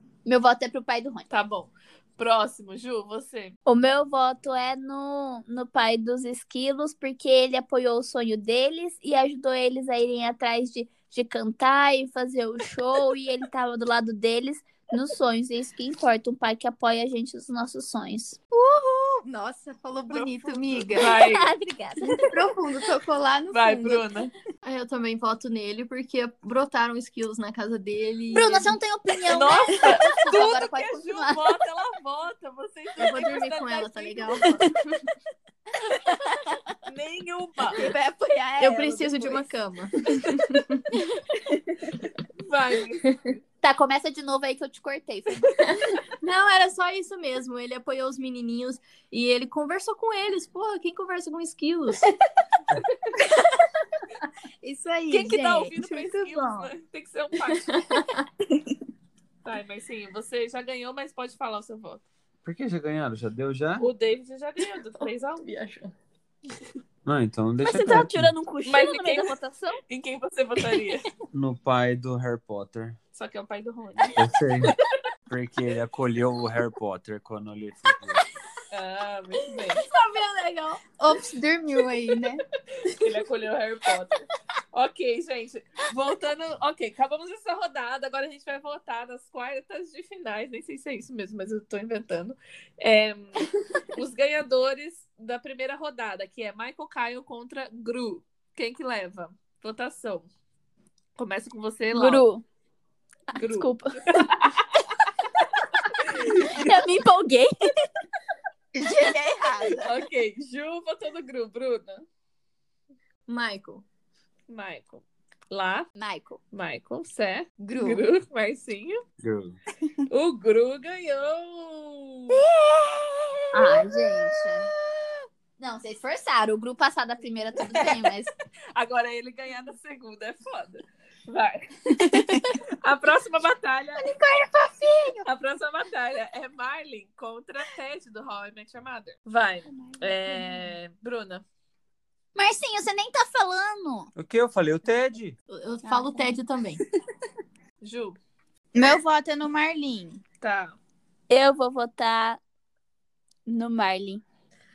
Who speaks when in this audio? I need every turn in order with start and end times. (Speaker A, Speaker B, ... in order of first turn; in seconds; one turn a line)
Speaker A: 0.2-1.2
Speaker B: 1.3-3.5
Speaker C: 3.6-18.4
Speaker D: 18.5-21.2
Speaker B: 20.1-21.5
Speaker C: 21.0-22.2
Speaker D: 22.1-24.0
Speaker B: 23.5-24.3
Speaker E: 24.6-28.8
Speaker A: 28.3-31.5
Speaker B: 29.3-34.5
Speaker E: 33.0-35.0
Speaker B: 36.8-37.9
Speaker A: 37.8-39.4
Speaker E: 38.6-40.9
Speaker B: 42.4-43.4
Speaker A: 43.6-45.7
Speaker E: 46.2-52.0
Speaker D: 54.6-56.7
Speaker B: 55.1-57.9
Speaker E: 57.7-58.2
Speaker B: 59.4-62.0
Speaker F: 62.4-63.9
Speaker B: 63.8-65.5
Speaker E: 65.4-65.9
Speaker F: 67.0-68.3
Speaker C: 67.6-69.8
Speaker B: 68.6-69.3
Speaker B: 69.9-71.1
Speaker F: 71.3-73.0
Speaker B: 73.1-74.7
Speaker F: 74.2-74.7
Speaker F: 75.3-78.2
Speaker B: 78.7-79.9
Speaker E: 79.8-80.8
Speaker D: 81.0-82.4
Speaker B: 82.8-100.3
Speaker B: 101.2-102.3
Speaker C: 101.9-102.4
Speaker C: 103.3-104.2
Speaker B: 103.3-104.6
Speaker B: 105.8-106.6
Speaker C: 106.4-107.7
Speaker D: 108.7-109.9
Speaker B: 109.8-112.0
Speaker E: 113.3-113.8
Speaker B: 114.5-115.9
Speaker A: 116.0-116.4
Speaker B: 116.5-119.0
Speaker D: 117.6-118.0
Speaker F: 119.2-119.5
Speaker B: 120.1-122.4
Speaker A: 123.5-124.7
Speaker A: 125.6-128.3
Speaker B: 128.7-134.1
Speaker D: 131.9-132.5
Speaker D: 133.9-135.2
Speaker B: 135.2-141.4
Speaker D: 139.8-140.6
Speaker A: 142.3-144.1
Speaker F: 144.2-145.3
Speaker E: 145.5-146.8
Speaker B: 147.8-148.2
Speaker D: 148.7-150.2
Speaker B: 150.4-150.8
Speaker C: 151.3-152.4
Speaker C: 153.5-154.2